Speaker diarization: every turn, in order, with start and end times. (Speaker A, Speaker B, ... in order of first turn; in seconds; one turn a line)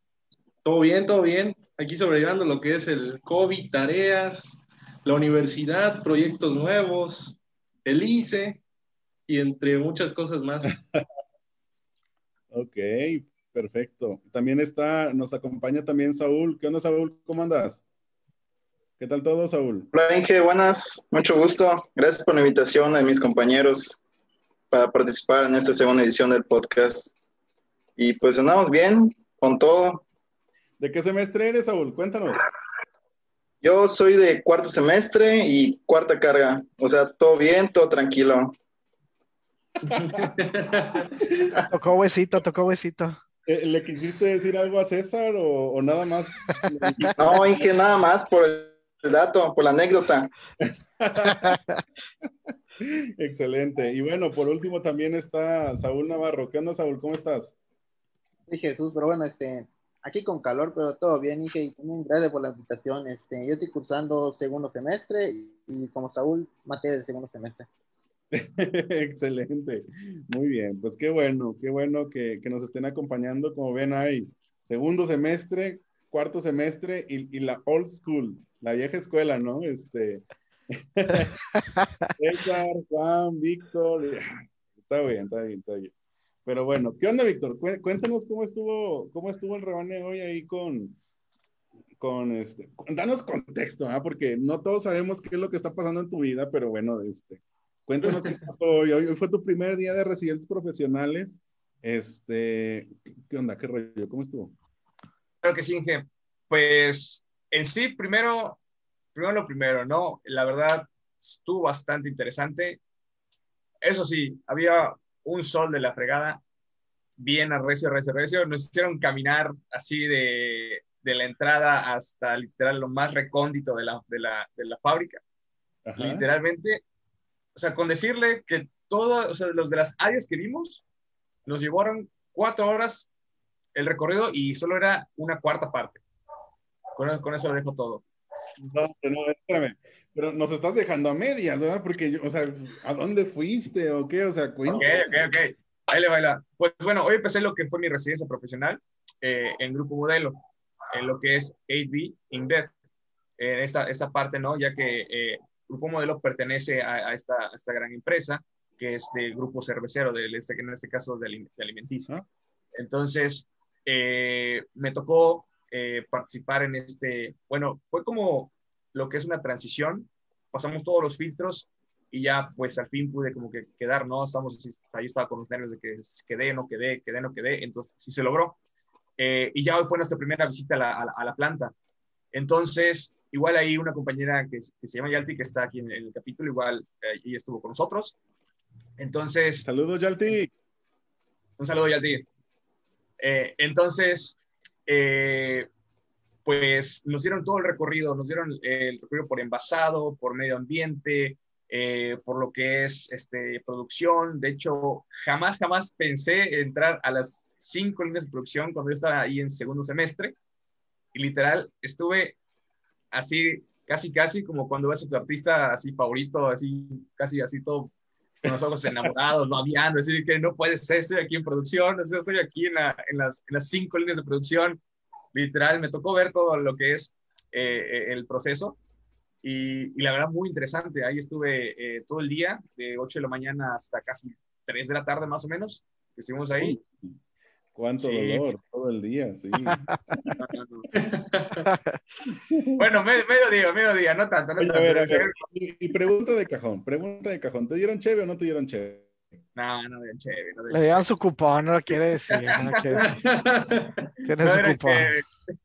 Speaker A: 0.6-8.6
Speaker A: 9.3-10.8
Speaker B: 10.7-11.0
Speaker B: 12.5-17.8
Speaker B: 19.0-19.9
Speaker C: 19.9-24.0
Speaker C: 24.7-27.2
Speaker C: 28.0-30.0
Speaker B: 30.8-32.4
Speaker C: 33.6-38.6
Speaker A: 39.9-41.1
Speaker B: 39.9-40.3
Speaker D: 41.7-43.2
Speaker B: 43.5-47.4
Speaker C: 47.2-50.3
Speaker B: 50.6-51.6
Speaker D: 51.4-51.8
Speaker B: 52.8-57.5
Speaker E: 58.5-67.7
Speaker B: 68.3-81.3
Speaker D: 81.8-82.1
Speaker B: 82.2-85.9
Speaker B: 86.5-91.0
Speaker B: 92.0-104.5
Speaker F: 105.4-108.6
Speaker F: 109.2-112.8
Speaker F: 113.8-116.4
Speaker F: 117.2-125.2
Speaker B: 125.8-126.3
Speaker F: 126.0-126.8
Speaker F: 127.5-130.8
Speaker F: 131.5-133.1
Speaker F: 133.8-136.0
Speaker F: 136.9-138.0
Speaker B: 138.6-145.3
Speaker F: 144.7-152.7
Speaker F: 153.4-162.1
Speaker F: 162.8-178.6
Speaker F: 179.2-181.7
Speaker F: 182.3-188.2
Speaker F: 189.0-189.7
Speaker B: 189.6-190.5
Speaker F: 191.6-192.3
Speaker F: 193.2-195.7
Speaker F: 196.4-210.4
Speaker F: 211.1-212.4
Speaker F: 213.1-224.8
Speaker F: 225.3-228.8
Speaker F: 229.4-236.8
Speaker B: 236.6-237.2
Speaker B: 237.8-240.4
Speaker F: 238.0-238.5
Speaker F: 240.4-240.9
Speaker A: 241.0-241.6
Speaker D: 241.7-242.0
Speaker B: 242.5-242.8
Speaker F: 242.8-245.4
Speaker B: 244.6-249.1
Speaker F: 249.6-251.0
Speaker D: 250.7-253.1
Speaker F: 252.3-253.0
Speaker A: 253.0-254.0
Speaker D: 254.2-255.1
Speaker F: 254.4-255.2